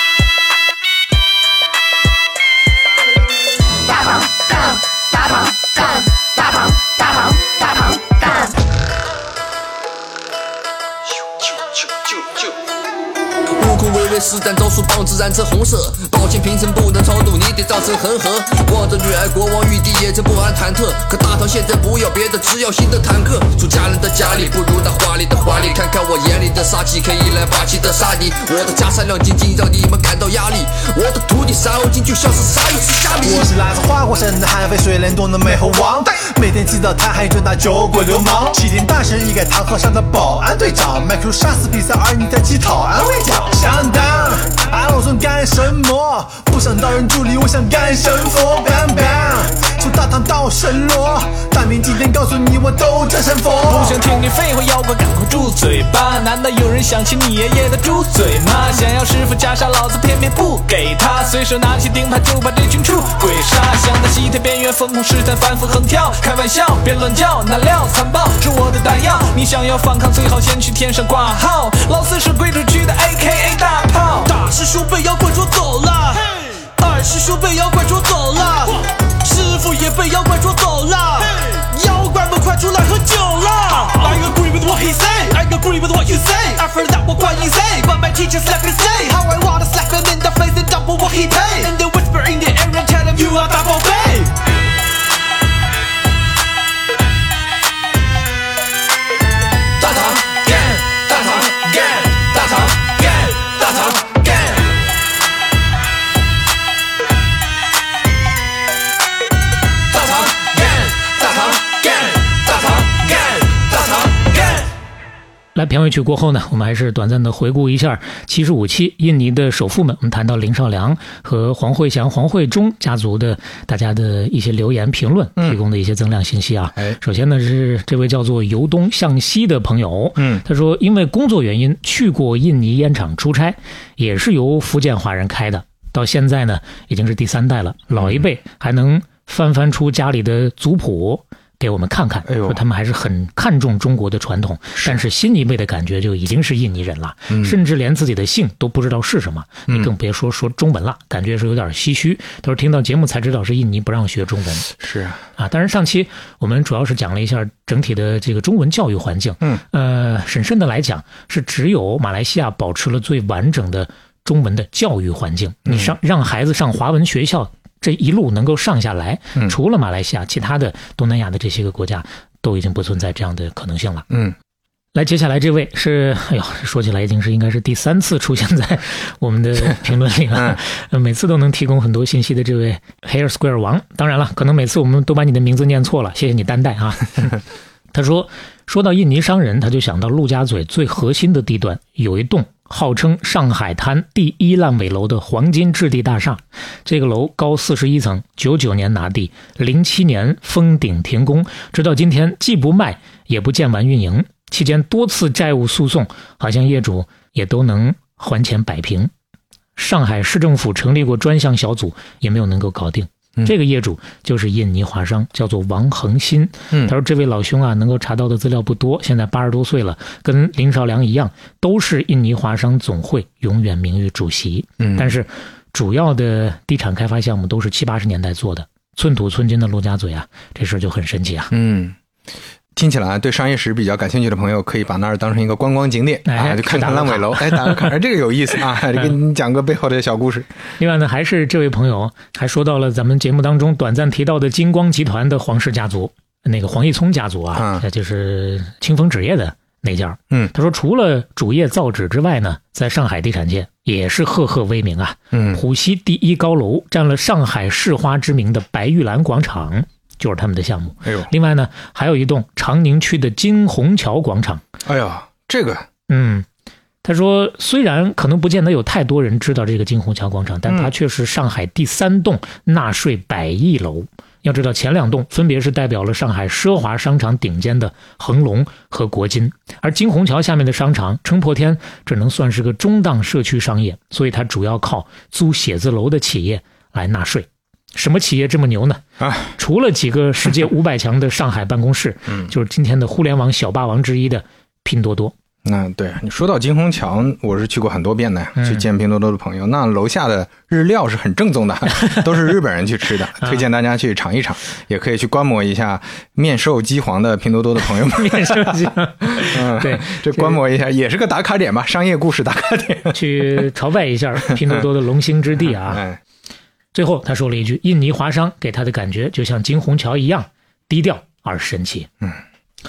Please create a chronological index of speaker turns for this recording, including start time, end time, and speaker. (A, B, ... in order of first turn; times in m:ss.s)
0:11.7-0:12.5 A
0:13.5-0:33.5 A
0:33.2-0:54.0 B
0:53.6-1:34.3 C
1:31.3-1:31.6 B
1:39.8-1:42.5 C
1:55.6-2:34.7 D
2:10.2-2:10.4 E
2:18.0-2:18.2 E
2:22.3-2:22.6 E
2:24.8-2:25.0 E
2:27.3-2:27.6 E
2:34.8-2:35.2 E
2:35.4-2:54.1 D
2:45.7-2:46.0 E
2:54.9-3:07.4 D
3:07.9-3:29.1 D
3:29.8-3:51.5 D
3:44.8-3:45.1 E
3:51.5-3:52.0 E
3:52.8-4:00.5 E
3:56.3-3:58.0 D
4:00.8-4:24.6 D
4:07.5-4:07.8 E
4:15.3-4:15.6 E
4:21.0-4:21.3 E
4:24.8-4:25.9 E
4:26.1-4:26.5 D
4:27.0-4:49.0 D
4:30.7-4:30.9 E
4:49.2-4:49.6 E
4:49.6-4:55.3 D
4:55.6-5:13.6 E
4:58.6-4:58.8 D
5:07.8-5:10.6 D
5:13.1-5:16.0 D
5:15.6-5:16.2 E
5:16.9-5:22.1 D